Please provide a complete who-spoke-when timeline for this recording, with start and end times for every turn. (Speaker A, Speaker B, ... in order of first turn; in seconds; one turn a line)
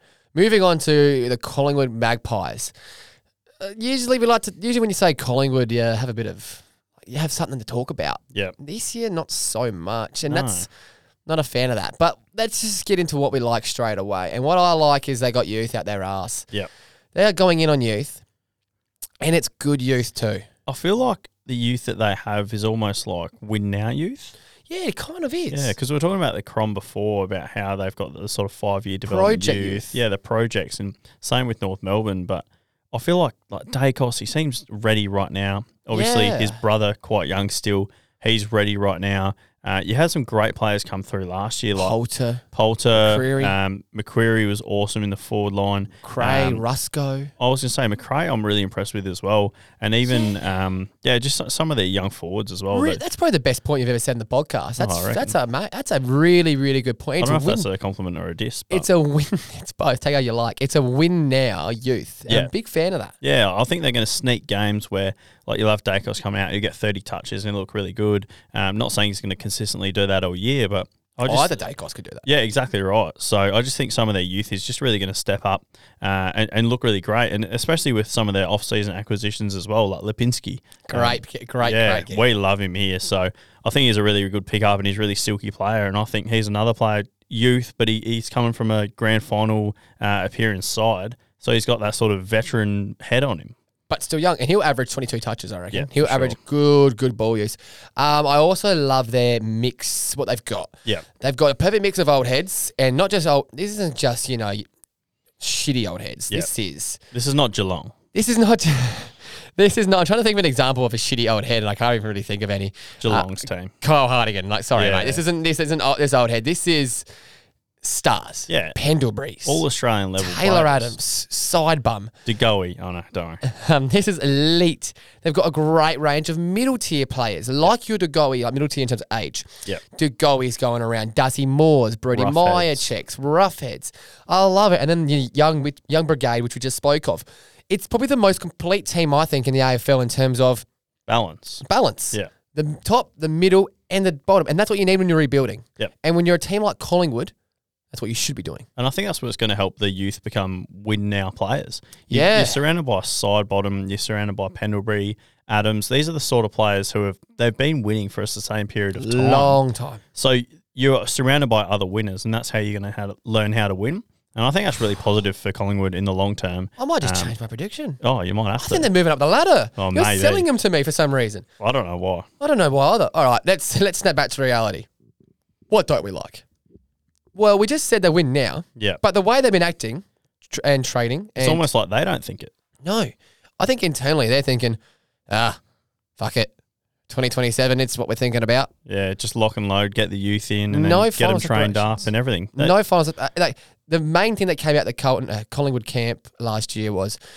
Speaker A: 0.3-2.7
Speaker A: 3.6-10.7
Speaker B: 10.3-10.7
Speaker A: 11.2-16.5
Speaker A: 17.1-18.2
Speaker A: 19.2-20.4
Speaker B: 20.7-24.3
Speaker A: 24.7-25.7
Speaker B: 25.5-42.0
Speaker A: 29.1-30.0
Speaker A: 35.9-36.6
Speaker A: 41.8-43.5
Speaker B: 42.5-46.6
Speaker A: 46.0-47.3
Speaker B: 47.4-53.0
Speaker A: 52.7-57.7
Speaker B: 54.8-55.3
Speaker B: 57.2-58.9
Speaker A: 58.7-63.1
Speaker B: 63.2-71.5
Speaker A: 71.2-72.2
Speaker B: 72.2-93.5
Speaker A: 80.9-82.2
Speaker A: 93.9-104.6
Speaker B: 95.7-96.4
Speaker A: 105.4-107.0
Speaker B: 107.1-107.9
Speaker A: 108.1-117.0
Speaker B: 113.0-113.7
Speaker B: 114.8-115.2
Speaker A: 117.8-119.6
Speaker B: 118.5-118.8
Speaker B: 119.5-121.0
Speaker A: 120.2-122.1
Speaker B: 122.2-123.4
Speaker A: 123.4-140.6
Speaker B: 132.1-132.9
Speaker B: 141.1-142.3
Speaker A: 141.6-147.3
Speaker A: 147.9-148.7
Speaker B: 148.8-159.6
Speaker A: 152.1-152.6
Speaker A: 159.0-160.0
Speaker B: 160.1-167.3
Speaker A: 166.8-168.0
Speaker B: 168.0-168.9
Speaker A: 168.6-171.4
Speaker B: 169.8-170.5
Speaker B: 171.6-172.3
Speaker A: 172.4-174.9
Speaker A: 175.7-176.4
Speaker A: 177.3-181.7
Speaker B: 181.4-182.5
Speaker A: 182.8-184.8
Speaker A: 185.3-185.6
Speaker A: 186.2-186.5
Speaker A: 187.1-188.7
Speaker B: 188.9-192.7
Speaker A: 190.7-197.2